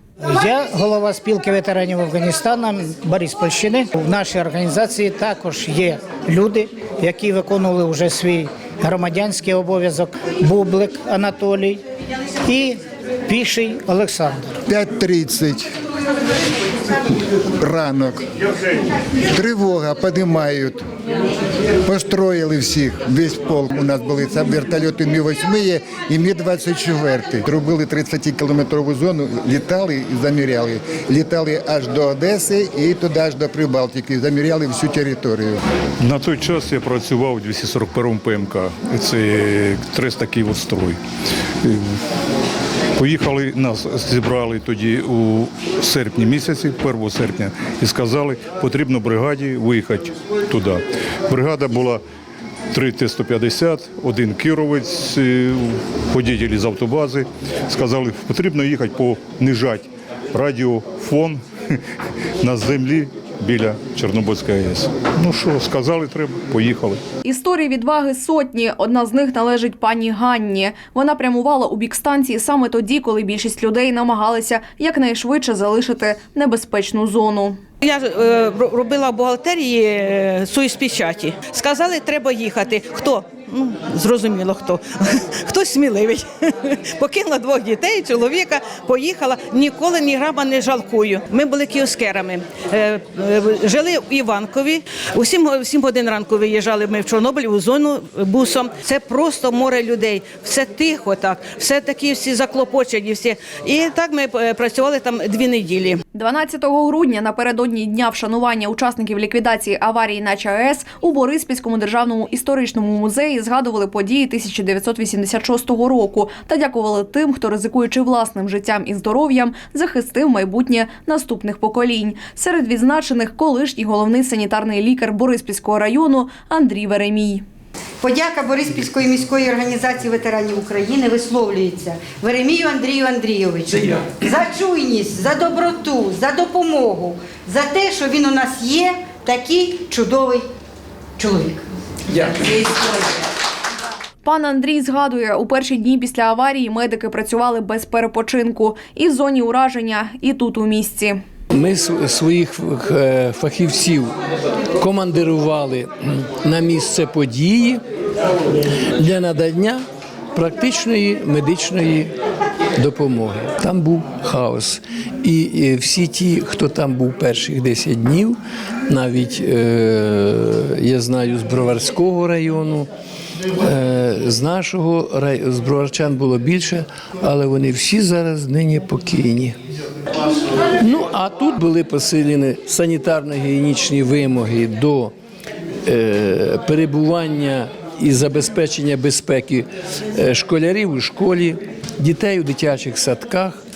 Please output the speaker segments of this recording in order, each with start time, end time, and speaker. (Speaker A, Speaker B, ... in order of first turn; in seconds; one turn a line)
Speaker A: 0.2-11.8
Speaker A: 12.4-14.5
Speaker B: 14.7-15.7
Speaker B: 17.6-18.2
Speaker B: 19.3-20.8
Speaker B: 21.9-35.6
Speaker C: 36.0-41.0
Speaker C: 43.0-52.0
Speaker C: 52.7-61.8
Speaker C: 62.4-67.0
Speaker D: 67.2-77.6
Speaker E: 77.8-106.0
Speaker D: 106.1-127.4
Speaker F: 128.0-140.5
Speaker F: 141.2-141.7
Speaker F: 142.2-142.8
Speaker D: 144.2-151.2
Speaker G: 151.5-154.1
Speaker G: 154.8-157.8
Speaker G: 158.9-159.8
Speaker G: 160.3-162.1
Speaker G: 162.8-172.9
Speaker G: 173.6-179.5
Speaker G: 180.8-185.1
Speaker G: 185.8-193.6